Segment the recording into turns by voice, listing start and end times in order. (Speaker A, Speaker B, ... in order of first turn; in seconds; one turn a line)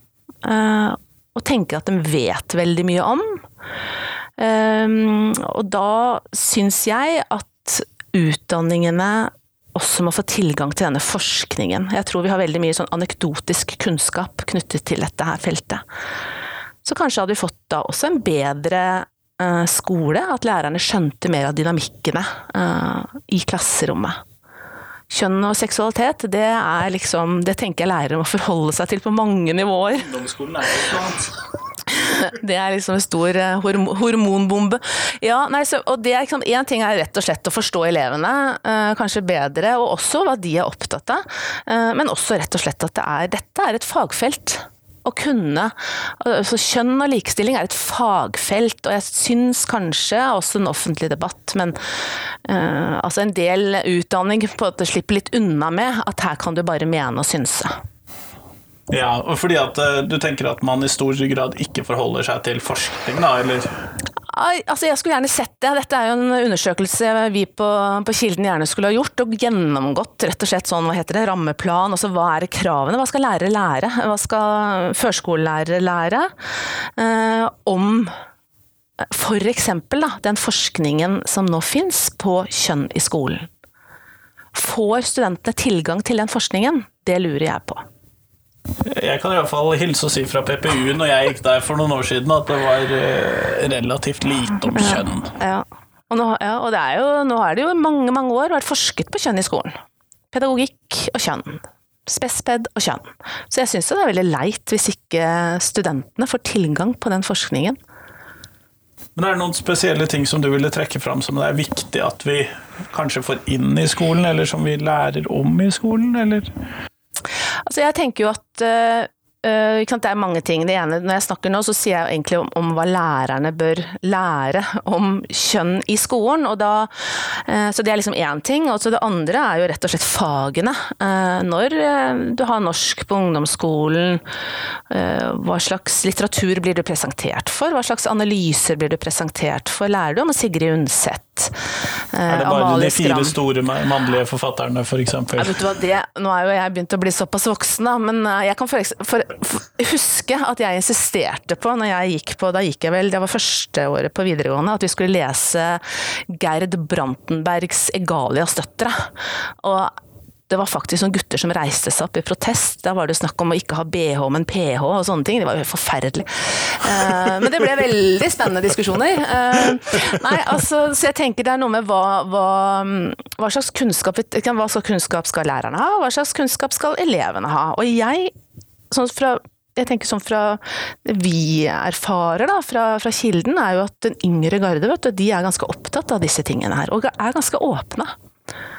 Speaker A: 0.4-3.4
Speaker A: 4.4-15.8
Speaker A: 16.8-24.2
Speaker A: 25.1-30.1
Speaker B: 30.0-31.3
Speaker A: 31.9-51.8
Speaker A: 52.4-57.8
Speaker B: 58.9-63.7
Speaker A: 64.3-76.3
Speaker A: 77.0-78.1
Speaker A: 79.0-83.5
Speaker A: 84.5-87.8
Speaker B: 88.8-95.3
Speaker A: 94.7-99.7
Speaker A: 100.3-107.8
Speaker B: 109.2-116.5
Speaker A: 117.7-134.2
Speaker A: 134.9-141.6
Speaker A: 142.1-143.3
Speaker B: 142.3-145.6
Speaker A: 145.4-159.9
Speaker A: 160.5-178.3
Speaker A: 178.9-188.1